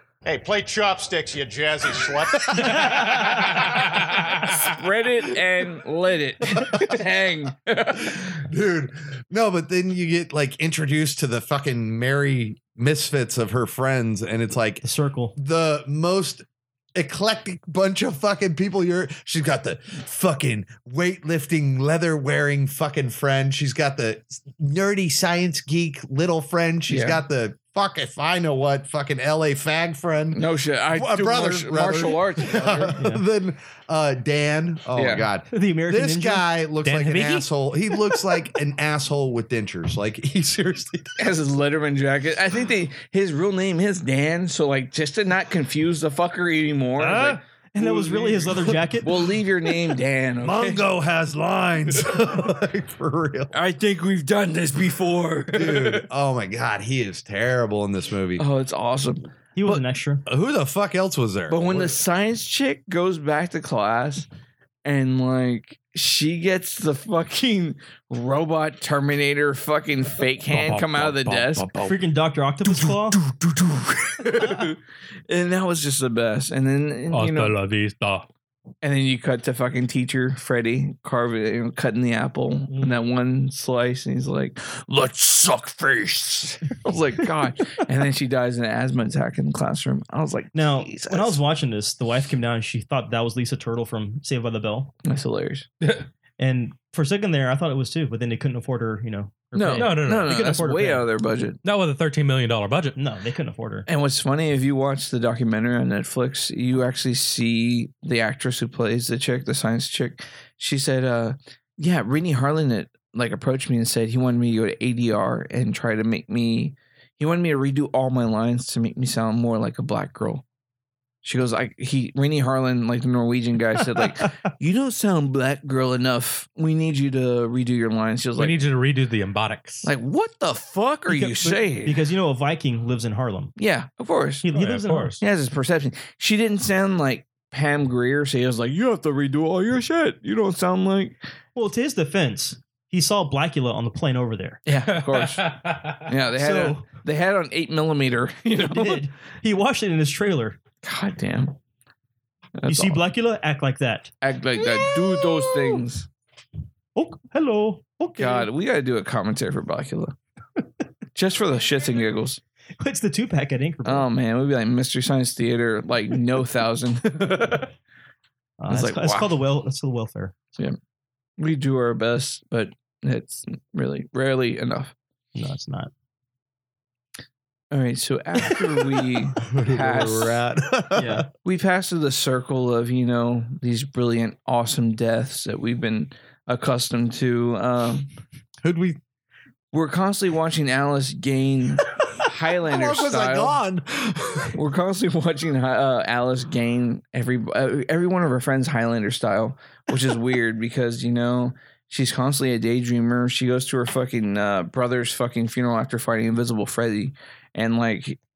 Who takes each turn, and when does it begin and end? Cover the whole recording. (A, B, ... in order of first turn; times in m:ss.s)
0:00.2-0:02.8 A
0:02.6-0:03.6 B
0:03.1-0:08.3 C
0:08.0-0:14.8 B
0:14.8-0:15.4 D
0:15.4-0:30.4 B
0:26.9-0:27.2 C
0:30.3-0:33.0 C
0:30.9-0:41.2 B
0:33.0-0:33.2 D
0:34.9-0:35.3 C
0:35.5-0:36.5 D
0:36.8-0:37.5 E
0:41.2-0:50.8 C
0:47.0-0:49.1 D
0:48.6-0:49.3 B
0:50.4-0:53.5 B
0:53.5-0:56.1 C
0:55.5-0:58.4 B
0:58.4-0:59.9 C
0:59.6-1:00.2 D
1:00.3-1:02.0 B
1:01.5-1:04.3 C
1:04.8-1:11.8 C
1:10.5-1:12.0 E
1:11.8-1:13.2 D
1:14.1-1:17.6 C
1:17.1-1:18.3 E
1:18.8-1:31.4 C
1:22.7-1:23.0 E
1:30.5-1:34.9 D
1:35.0-1:35.7 C
1:36.4-1:41.1 D
1:39.5-1:41.6 C
1:39.7-1:40.3 E
1:41.6-1:43.0 E
1:43.0-1:43.9 D
1:43.9-2:00.4 C
2:01.2-2:08.7 C
2:08.4-2:09.9 E
2:09.8-2:12.0 C
2:11.1-2:13.5 D
2:13.6-2:14.5 C
2:14.4-2:15.2 D
2:14.5-2:15.2 E
2:15.2-2:21.2 C
2:21.6-2:24.6 D
2:24.7-2:25.4 C
2:24.7-2:26.0 E
2:26.1-2:29.1 C
2:26.4-2:26.9 D
2:28.6-2:30.6 D
2:30.8-2:31.6 C
2:32.6-2:33.1 C
2:32.7-2:34.1 D
2:34.2-2:36.1 C
2:35.4-2:35.7 D
2:37.0-2:38.5 D
2:38.2-2:40.2 C
2:41.2-2:42.4 C
2:42.8-2:44.1 D
2:43.8-2:47.7 C
2:48.6-2:50.4 D
2:48.7-2:49.4 C
2:51.4-2:54.9 C
2:55.4-2:55.9 D
2:57.7-3:00.4 C
2:59.4-3:01.3 B
3:01.0-3:01.3 D
3:01.4-3:08.1 C
3:08.6-3:09.0 B
3:09.7-3:13.6 C
3:12.6-3:14.6 B
3:14.5-3:28.2 C